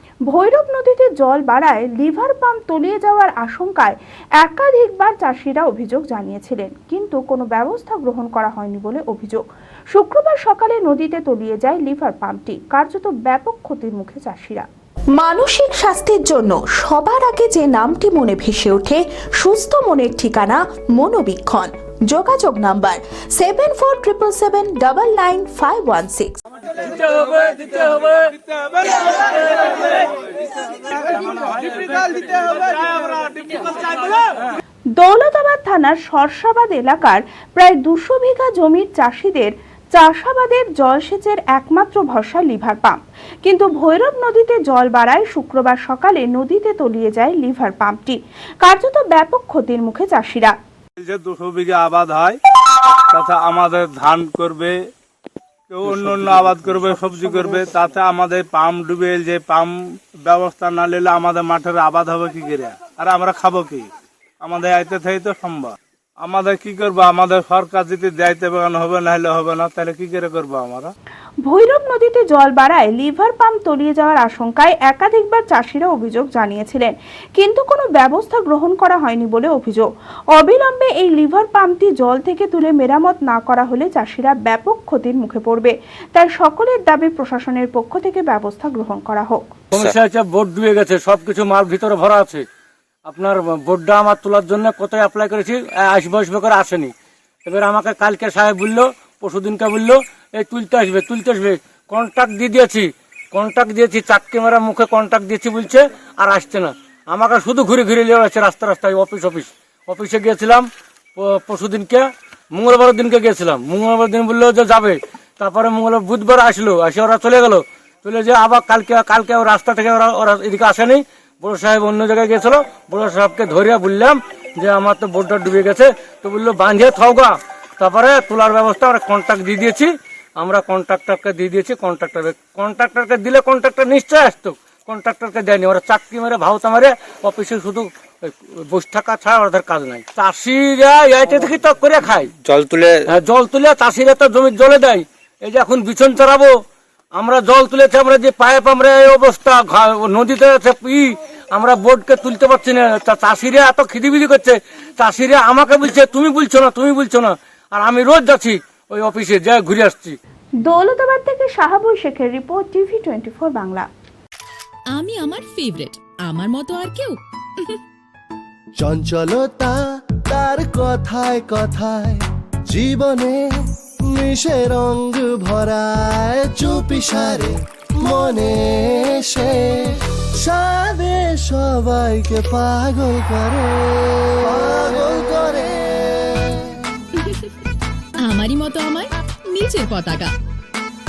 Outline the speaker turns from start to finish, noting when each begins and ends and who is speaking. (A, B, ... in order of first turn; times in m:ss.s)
0:00.3-0:14.7 A
0:15.2-0:26.4 B
0:26.8-0:28.3 C
0:28.6-0:29.0 D
0:29.1-0:30.0 C
0:30.8-0:34.4 D
0:35.0-0:50.5 A
0:51.0-0:52.4 D
0:53.0-0:54.8 D
0:55.7-1:03.9 D
1:04.4-1:10.9 D
1:11.5-1:29.5 A
1:29.7-1:32.4 C
1:33.1-1:36.9 C
1:37.4-2:22.3 C
2:23.1-2:26.6 C
2:27.2-2:40.2 C
2:40.7-2:43.9 A
2:44.9-2:47.8 E
2:48.8-3:06.8 F
3:07.2-3:07.5 E
3:08.2-3:10.4 E